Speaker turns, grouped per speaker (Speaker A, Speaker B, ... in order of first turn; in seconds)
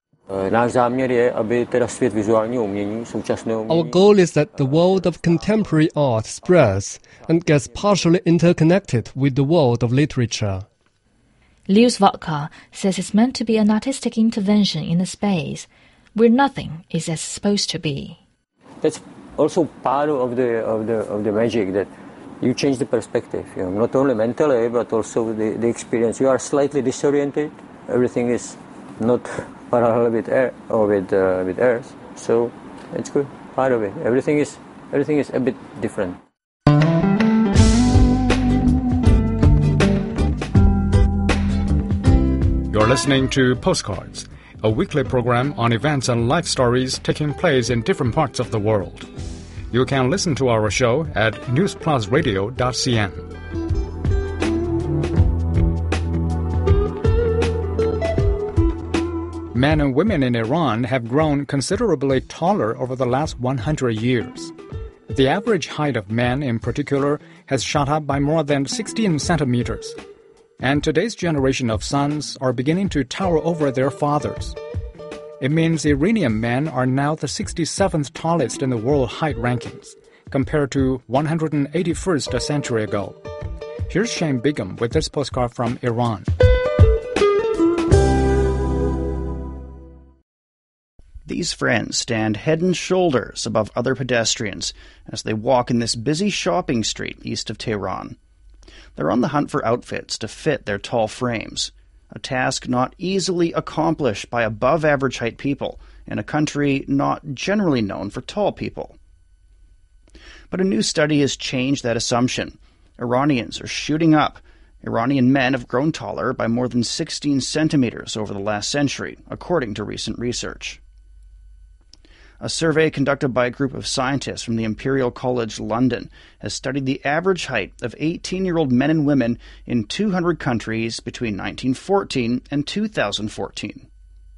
Speaker A: 0.3-3.9, 18.8-36.2
Speaker B: 3.7-10.7
Speaker C: 11.7-18.2
Speaker D: 42.7-49.1, 49.7-53.2, 59.5-64.5, 65.1-70.0, 70.6-74.6, 75.4-83.2, 83.9-86.3
Speaker E: 91.3-98.2, 99.0-109.0, 110.5-120.8, 122.4-133.9